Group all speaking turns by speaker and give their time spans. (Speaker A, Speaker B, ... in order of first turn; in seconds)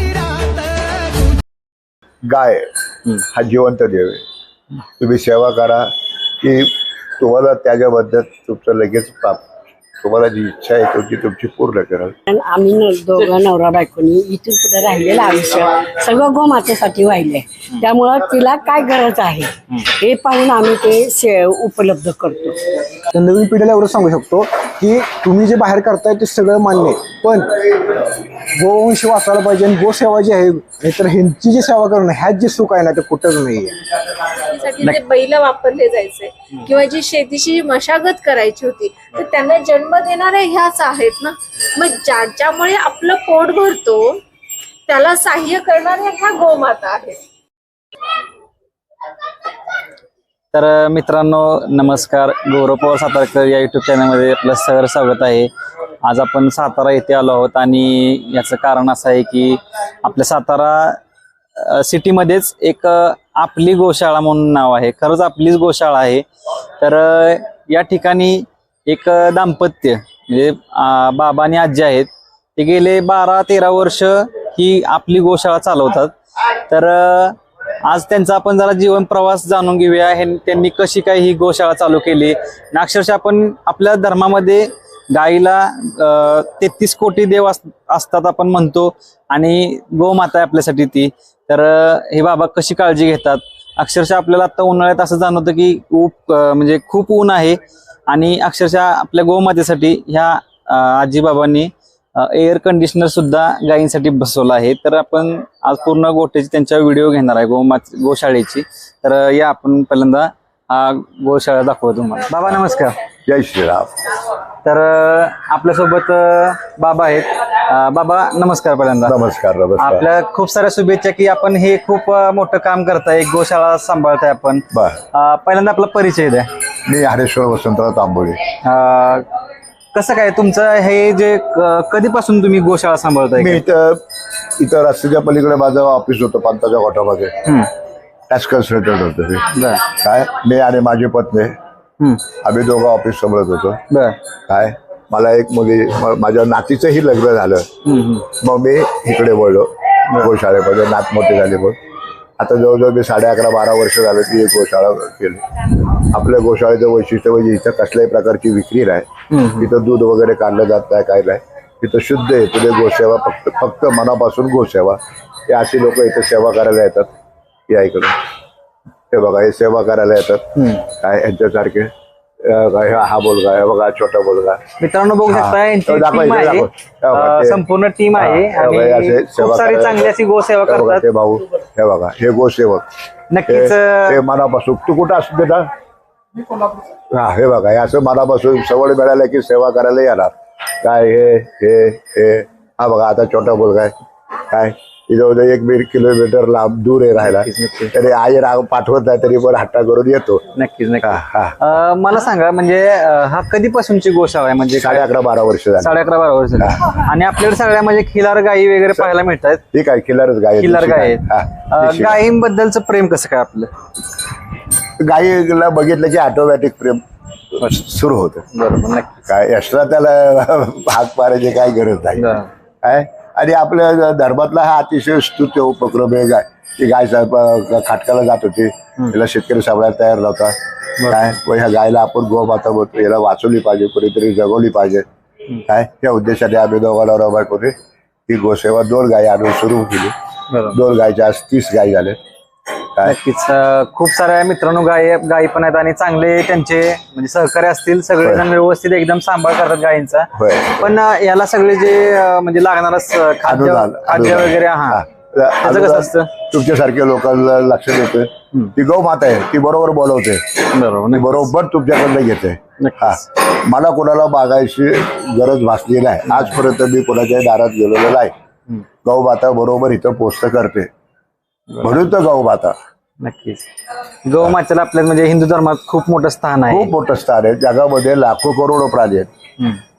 Speaker A: 2.2-4.2, 5.0-9.4, 10.0-12.1, 113.2-114.0, 119.0-120.0, 124.7-125.0, 126.8-128.5, 133.3-134.0, 134.6-137.5, 138.3-141.6, 142.4-143.8, 144.5-147.7, 148.2-151.8, 152.4-167.1, 167.7-168.2, 169.1-171.9, 172.4-174.6, 175.3-177.6, 178.2-180.1, 180.7-182.8, 183.5-185.7, 187.1-193.9, 194.5-200.4, 201.0-201.6, 204.8-205.9, 206.6-206.8, 209.7-212.2, 215.0-218.4, 219.3-235.1, 235.7-237.7, 238.3-240.1, 240.7-242.2, 250.3-250.9, 253.4-268.3, 269.0-270.9, 271.8-272.8, 276.7-279.3
Speaker B: 12.3-22.6
Speaker C: 23.1-33.8
Speaker D: 34.3-44.2, 44.9-47.2, 112.4-112.9
Speaker E: 50.5-55.5, 56.0-61.0, 61.5-66.2, 66.8-113.0, 114.6-119.2, 119.8-126.5, 128.6-129.2, 129.9-133.6, 137.4-137.7, 139.5-139.9, 143.9-144.2, 147.8-148.3, 159.3-159.7, 170.6-170.8, 174.8-181.0, 183.3-184.2, 197.2-197.9, 200.6-205.0, 205.8-209.6, 210.6-213.7, 218.5-219.3, 222.2-222.5, 240.5-240.8, 243.0-255.0, 255.6-256.3, 260.7-261.5, 262.8-263.2, 266.3-266.5, 271.7-272.0, 273.2-273.7, 274.2-276.9